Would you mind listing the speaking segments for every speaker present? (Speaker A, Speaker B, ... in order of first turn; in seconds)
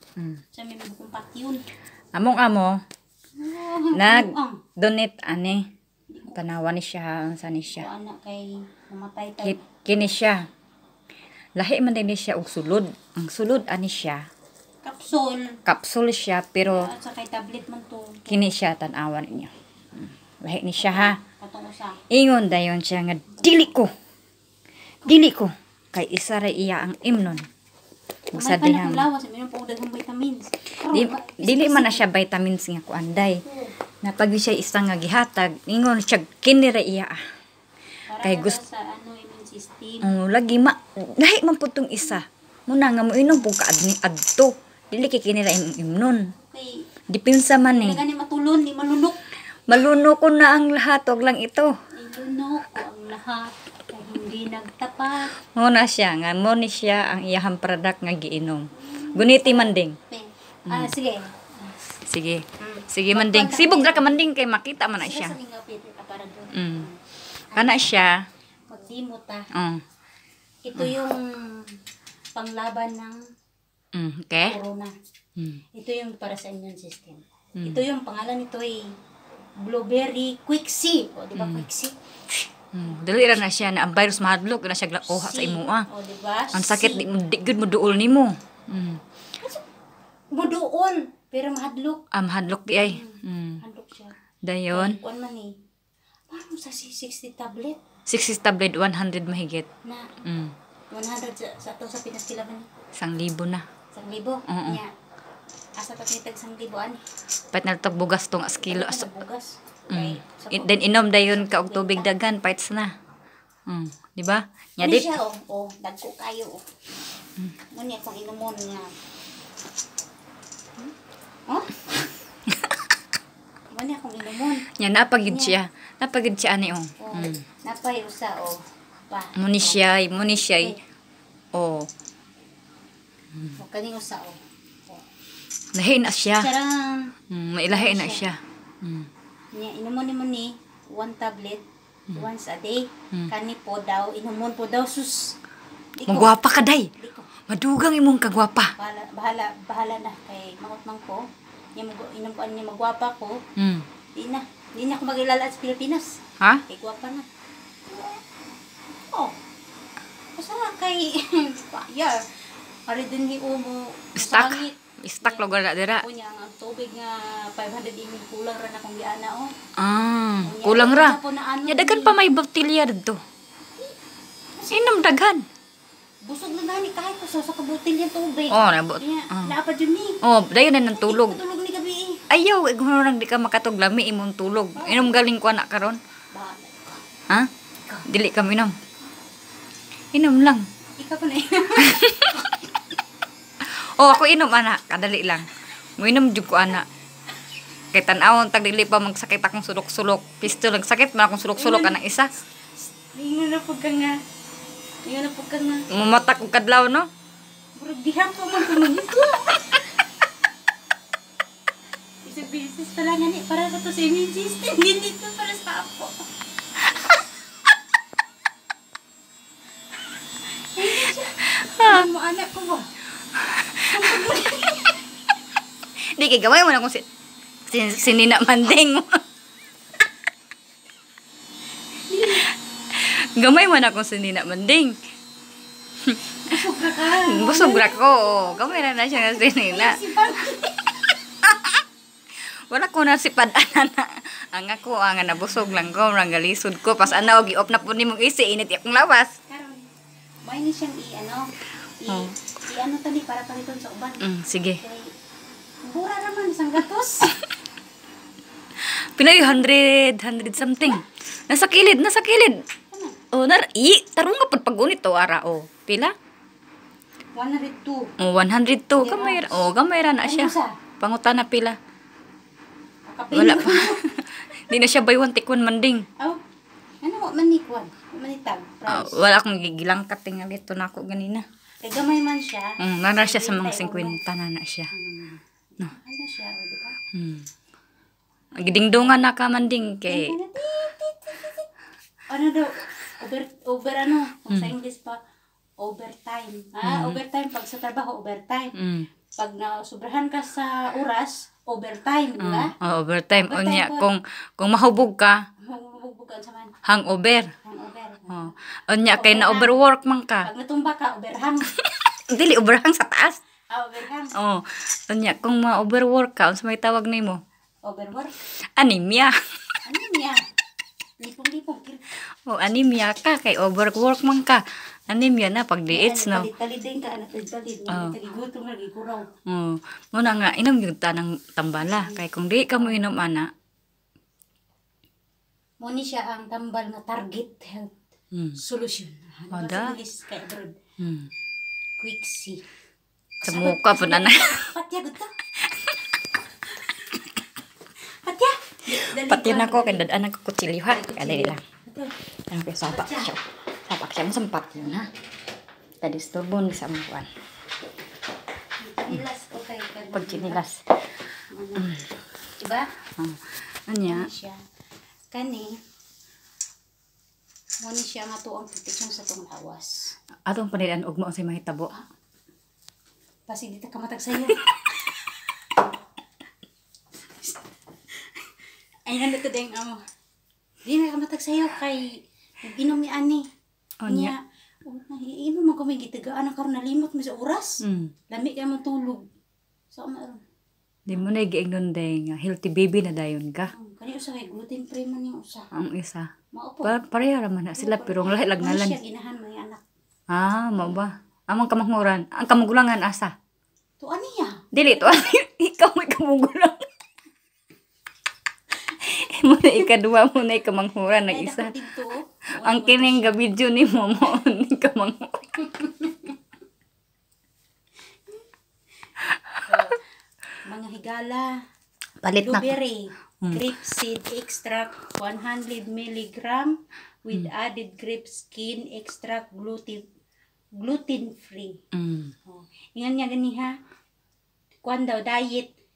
Speaker A: 0.2-0.4, 2.1-2.8, 3.9-5.6, 6.3-7.9, 9.4-10.5, 11.6-14.2, 15.7-16.9, 18.3-21.2, 22.1-23.9, 25.1-27.5, 28.3-29.1, 30.8-33.4, 34.0-37.2, 38.2-38.6, 40.0-46.3, 47.1-48.0, 49.7-51.7, 55.5-60.0, 60.7-60.9, 62.1-65.4, 66.5-66.9, 67.5-68.2, 69.5-69.8, 73.9-74.6, 77.6-77.8, 81.4-81.7, 82.7-85.9, 86.5-89.0, 92.1-93.6, 94.5-95.0, 98.1-99.7, 100.2-100.5, 103.0-103.6, 104.5-104.8, 107.5-109.1, 109.9-112.9, 113.7-115.1, 122.5-122.9, 124.8-127.4, 129.4-130.8, 131.5-131.9, 135.7-136.5, 137.3-139.1, 146.1-146.9, 147.5-148.7, 153.6-153.9, 164.2-166.1, 169.8-173.2, 174.7-175.4, 178.5-179.6, 180.2-181.4, 182.3-186.0, 188.1-188.8, 190.1-190.6, 191.8-192.5, 193.6-196.9, 197.9-202.3, 205.9-207.1, 221.6-222.1, 223.4-224.7, 226.2-227.1, 227.7-229.2, 232.4-234.9, 236.0-240.0, 241.4-241.8, 242.7-249.4, 254.2-254.8, 258.8-262.6, 263.3-266.1, 268.2-271.8, 273.3-276.1, 278.9-281.4, 282.8-284.9, 287.1-287.5, 288.6-290.4, 296.8-297.2, 298.8-299.1, 302.4-305.4, 306.9-307.5, 308.3-310.5, 311.8-313.4, 314.4-317.4, 318.8-319.8, 322.5-326.5, 327.9-328.2, 329.5-333.5, 338.3-338.6, 339.5-340.0, 341.0-341.3, 343.4-344.7, 348.9-351.6, 352.5-355.1, 356.0-357.3, 360.1-360.9, 361.8-362.1, 363.2-364.3, 370.5-371.9, 384.0-384.3, 387.8-388.1, 391.1-393.7, 395.7-396.3, 396.8-399.0, 400.3-403.3, 404.7-406.8, 409.0-411.7, 412.6-415.7, 422.2-422.8, 431.9-432.3
Speaker B: 0.5-1.6, 3.4-4.6, 7.7-10.1, 14.8-15.6, 16.7-18.4, 20.8-22.0, 28.4-32.0, 33.4-33.7, 38.1-40.1, 46.4-46.8, 47.8-49.2, 52.0-55.3, 58.7-61.8, 62.6-64.3, 65.0-67.0, 67.5-68.0, 68.7-69.5, 70.7-71.8, 72.3-73.2, 74.5-74.9, 75.7-79.0, 79.6-82.0, 85.0-87.1, 90.3-92.0, 92.8-94.2, 94.7-95.5, 96.3-97.8, 100.9-102.7, 103.9-104.9, 105.8-107.0, 108.7-112.1, 114.8-116.6, 117.7-118.9, 121.5-121.9, 123.7-124.7, 125.2-125.6, 127.0-129.8, 133.6-135.1, 136.4-137.1, 137.7-138.2, 139.5-145.3, 146.0-146.4, 147.0-147.3, 148.8-151.2, 151.8-153.4, 154.2-156.2, 156.7-157.3, 157.9-158.2, 159.1-159.4, 160.3-162.2, 162.9-165.5, 166.0-169.5, 170.4-172.2, 174.6-174.9, 176.2-180.2, 180.9-182.2, 184.8-185.2, 186.3-187.1, 191.0-192.6, 201.6-202.0, 202.8-204.2, 205.1-205.9, 207.8-209.9, 212.2-216.2, 220.4-222.9, 223.8-225.0, 232.1-232.5, 236.5-240.9, 249.5-249.9, 250.4-255.1, 255.8-257.4, 260.6-261.0, 262.9-263.2, 267.4-268.1, 269.0-269.7, 270.2-270.8, 273.1-274.1, 277.0-279.2, 281.8-284.2, 284.9-287.0, 290.1-291.7, 292.3-295.2, 295.8-298.8, 299.4-302.7, 303.5-304.1, 305.6-306.7, 307.6-308.5, 309.1-309.8, 310.4-311.8, 313.7-314.4, 317.9-318.4, 319.9-320.4, 321.2-322.1, 325.9-329.2, 332.7-333.0, 335.8-338.0, 338.6-340.8, 342.0-342.6, 343.4-345.3, 348.1-350.1, 350.9-352.1, 352.9-353.3, 358.8-360.6, 361.5-362.0, 362.6-362.9, 364.1-364.6, 365.3-365.8, 367.8-370.1, 373.5-375.5, 379.1-380.0, 380.9-383.4, 384.1-389.2, 389.9-390.4, 393.7-395.7, 396.5-397.1, 397.8-399.8, 404.0-405.3, 411.3-413.4, 415.8-416.3, 419.7-420.0, 420.7-421.6, 422.4-430.0, 430.8-431.8, 432.5-433.7, 434.8-435.7